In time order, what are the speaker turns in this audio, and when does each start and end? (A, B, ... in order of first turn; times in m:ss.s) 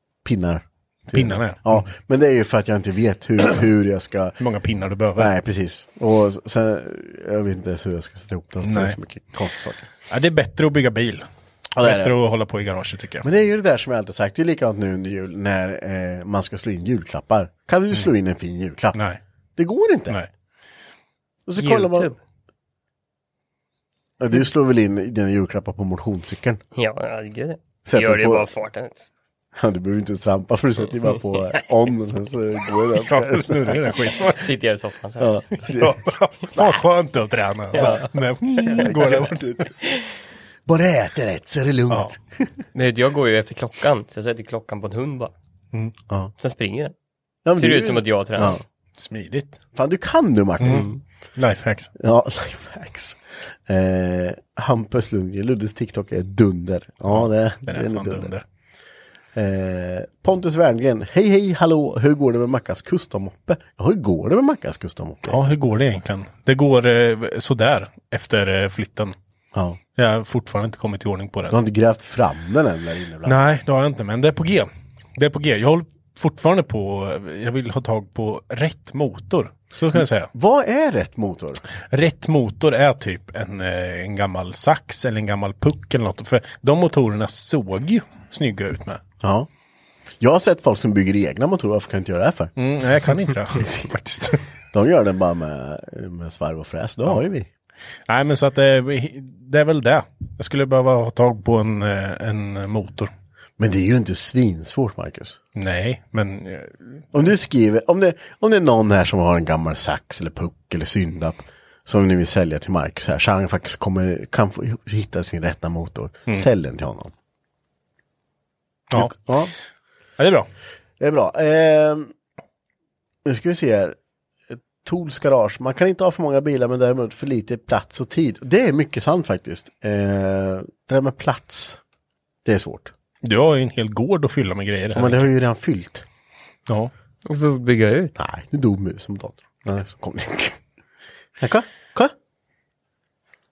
0:00.2-0:04.4 A
0:01.1-0:01.9 B
0:04.4-0:05.3 B
0:05.2-0:09.9 A
0:08.6-0:09.0 B
0:10.1-0:11.2 B
0:11.8-0:12.2 A
0:11.8-0:13.3 B
0:13.2-0:19.0 A
0:18.9-0:19.2 B
0:19.6-0:20.2 A
0:21.4-0:22.1 A
0:21.6-0:22.2 C
0:24.2-0:26.6 A
0:26.7-0:29.1 C
0:27.8-0:28.5 A
0:29.5-0:34.0 A
0:32.9-0:34.5 B
0:34.3-0:35.4 C
0:35.2-0:36.0 A
0:35.8-0:39.4 B
0:36.5-0:36.8 A
0:37.7-0:38.1 C
0:37.8-0:38.0 A
0:38.5-0:39.8 A
0:40.6-0:42.5 A
0:41.9-0:42.1 B
0:42.7-0:45.3 C
0:46.4-0:46.9 C
0:47.4-0:48.6 A
0:47.5-0:48.6 C
0:48.9-0:49.6 B
0:49.7-0:50.9 A
0:50.6-0:51.9 B
0:50.7-0:51.0 C
0:52.0-0:58.3 A
0:57.1-0:58.4 B
0:59.3-1:05.5 A
1:05.2-1:09.1 B
1:09.5-1:09.8 A
1:10.0-1:11.6 B
1:11.5-1:13.4 A
1:13.2-1:20.3 B
1:20.3-1:21.6 A
1:21.9-1:29.0 B
1:29.2-1:29.5 A
1:30.2-1:32.5 A
1:32.6-1:34.4 B
1:33.6-1:37.5 A
1:38.1-1:43.1 B
1:43.6-1:45.4 A
1:45.6-1:47.0 B
1:47.1-1:57.1 A
1:58.9-1:59.4 B
1:58.9-1:59.5 A
2:00.2-2:00.5 B
2:01.0-2:02.1 A
2:03.2-2:04.0 A
2:04.5-2:11.8 A
2:12.4-2:12.9 A
2:13.2-2:15.3 B
2:14.9-2:16.0 A
2:17.2-2:18.1 C
2:18.2-2:20.6 A
2:21.4-2:22.1 A